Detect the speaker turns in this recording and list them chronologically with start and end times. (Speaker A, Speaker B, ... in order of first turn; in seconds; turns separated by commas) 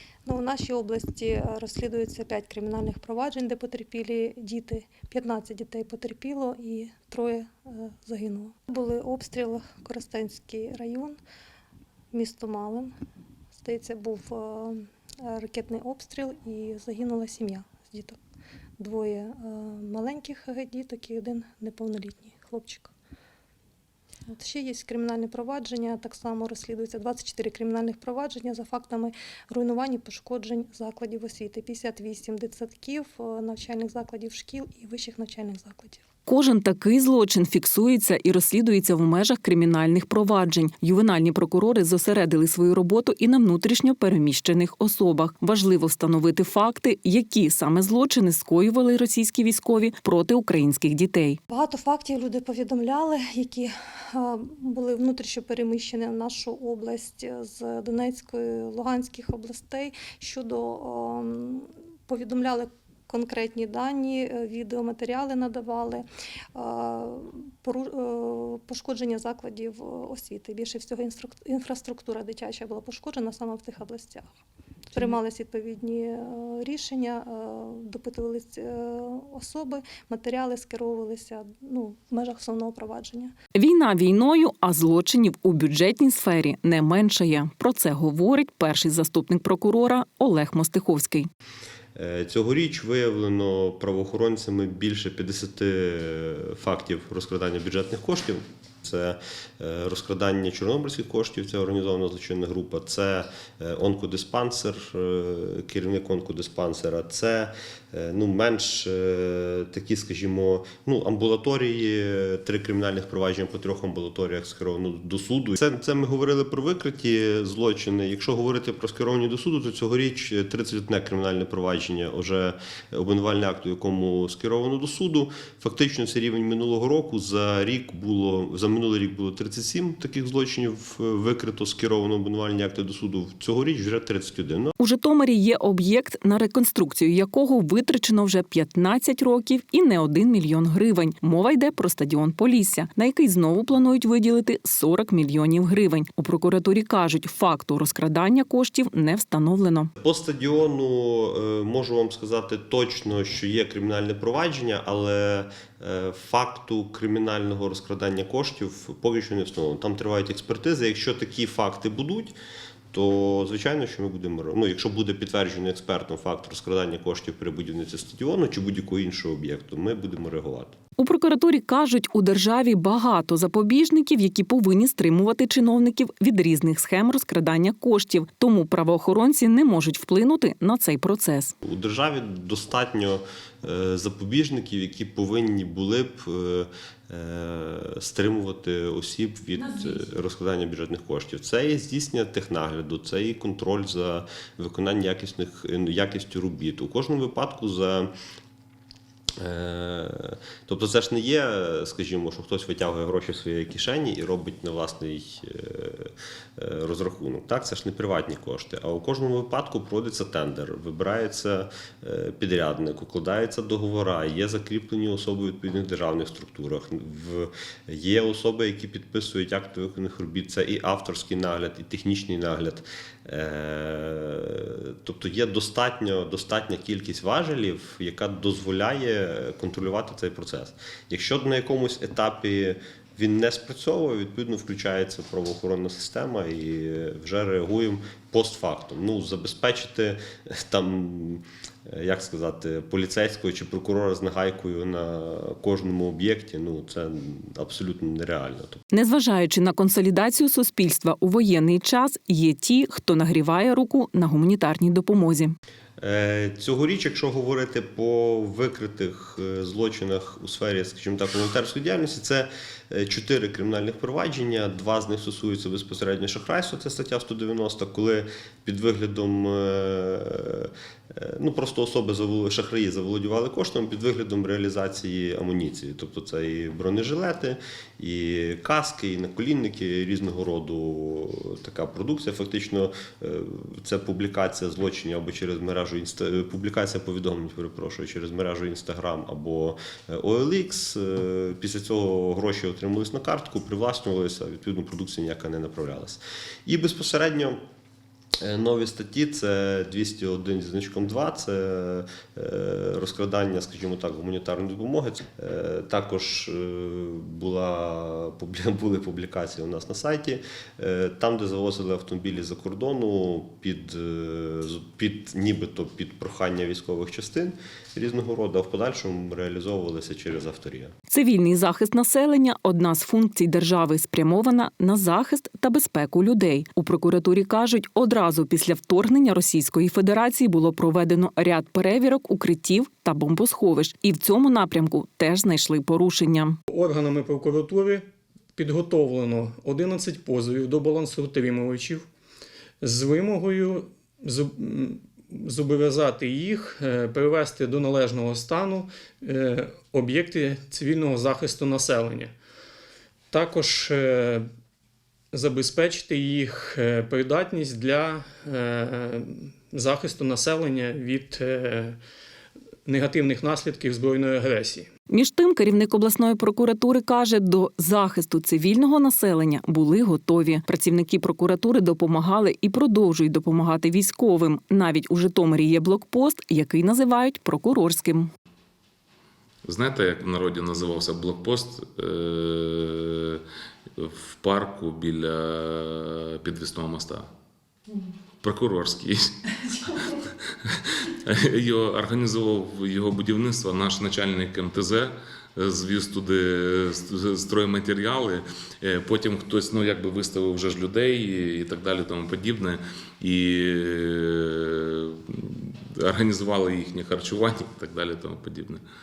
Speaker A: 0.2-11.2, Speaker A: 12.1-12.9, Speaker A: 13.6-18.2, Speaker A: 18.8-22.9, Speaker A: 24.3-36.0, Speaker B: 36.3-51.4, Speaker A: 51.5-74.3, Speaker A: 74.9-83.3, Speaker B: 83.5-91.3, Speaker C: 91.9-134.7, Speaker B: 134.8-149.9, Speaker C: 150.0-162.3, Speaker C: 162.9-170.7, Speaker B: 171.0-181.5, Speaker C: 181.6-198.1, Speaker B: 189.6-190.0, Speaker C: 199.4-248.8, Speaker B: 248.9-255.5, Speaker C: 256.0-297.6, Speaker C: 298.4-320.9, Speaker B: 321.1-336.6, Speaker D: 336.7-338.0, Speaker D: 338.6-342.1, Speaker D: 342.8-343.8, Speaker D: 344.3-344.9, Speaker D: 345.5-352.3, Speaker D: 353.3-354.4, Speaker D: 355.3-358.5, Speaker D: 359.7-361.9, Speaker D: 362.9-364.9, Speaker B: 365.1-378.3, Speaker E: 379.6-383.4, Speaker E: 384.0-387.3, Speaker E: 388.4-389.6, Speaker E: 390.4-408.8